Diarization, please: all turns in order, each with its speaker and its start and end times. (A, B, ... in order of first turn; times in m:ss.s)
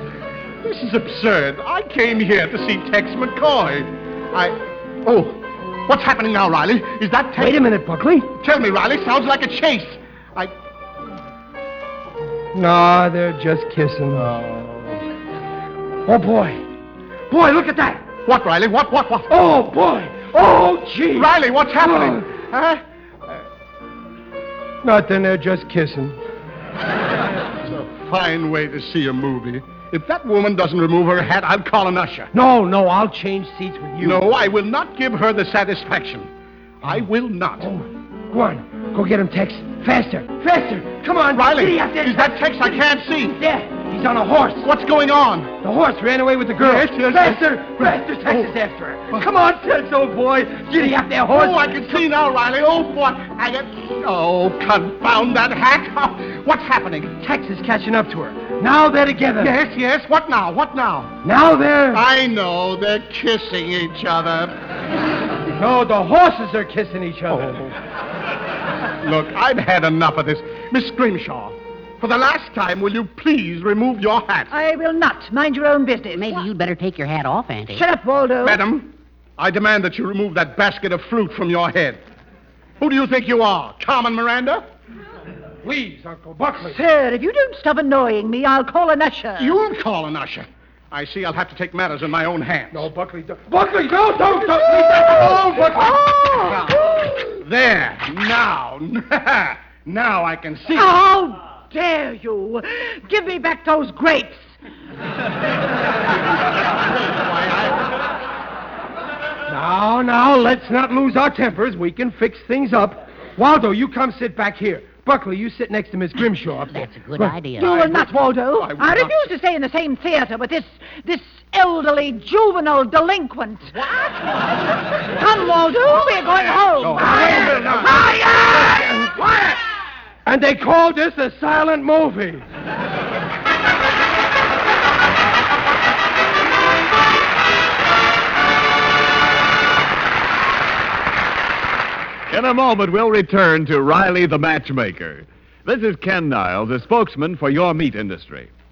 0:00.6-0:07.6 A
0:07.4-0:08.3 B
0:08.4-0:10.5 A
0:12.5-0:14.4 B
0:14.3-0:15.0 A
0:16.0-0:16.7 B
0:17.3-0:18.1 B
0:18.2-0:19.3 A
0:19.3-0:22.3 B
0:21.2-0:22.8 A
0:24.8-0:26.2 B
0:27.6-0:32.3 A
0:32.3-0:34.3 B
0:34.0-0:36.3 A
0:36.8-0:37.7 A
0:37.6-0:44.7 B
0:41.3-0:43.4 A
0:44.6-0:45.6 A
0:45.6-0:52.0 B
0:46.6-0:48.5 A
0:51.3-0:57.1 A
0:57.2-0:59.6 B
0:59.4-1:01.2 A
1:01.2-1:02.0 B
1:01.9-1:04.5 A
1:05.5-1:07.6 B
1:07.3-1:07.7 A
1:09.0-1:14.5 A
1:14.5-1:16.5 C
1:16.1-1:17.8 D
1:17.7-1:18.6 C
1:18.4-1:22.0 A
1:22.8-1:24.6 A
1:25.6-1:26.8 B
1:26.6-1:29.6 C
1:29.4-1:32.9 A
1:32.7-1:36.2 B
1:34.4-1:37.3 C
1:37.3-1:40.9 A
1:40.7-1:44.4 C
1:46.7-1:47.9 A
1:49.5-1:57.3 B
1:56.7-1:57.9 D
1:57.6-2:03.8 C
1:57.6-1:59.3 A
2:03.8-2:04.1 A
2:05.1-2:08.7 C
2:06.7-2:08.0 A
2:07.0-2:09.6 B
2:10.2-2:12.4 B
2:22.3-2:28.5 E